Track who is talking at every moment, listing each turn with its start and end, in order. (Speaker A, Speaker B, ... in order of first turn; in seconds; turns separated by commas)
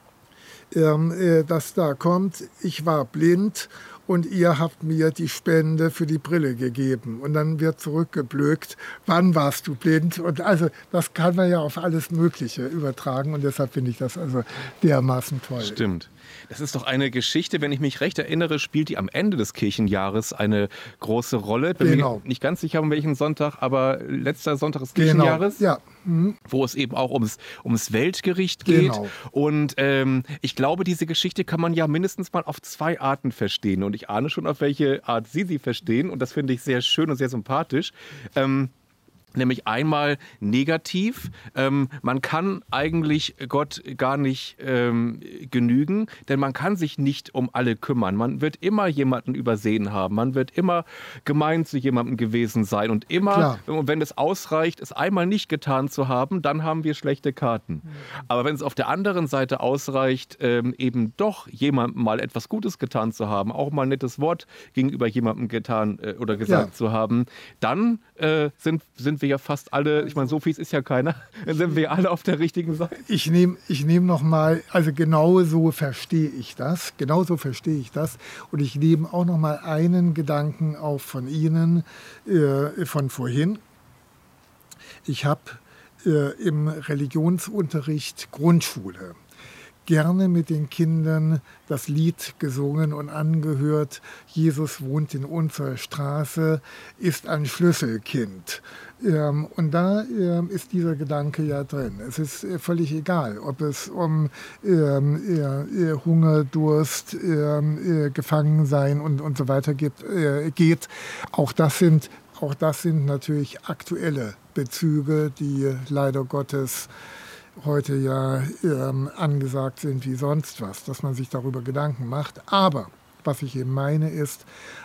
Speaker A: 0.7-15.8, Speaker B: 15.6-25.6, Speaker A: 21.8-22.2, Speaker A: 24.9-26.4, Speaker B: 26.5-38.7, Speaker A: 28.6-29.1, Speaker B: 39.3-73.0, Speaker A: 53.3-53.6, Speaker A: 66.5-66.7, Speaker A: 73.0-83.6, Speaker A: 85.0-89.2, Speaker A: 89.8-116.9, Speaker A: 117.6-124.5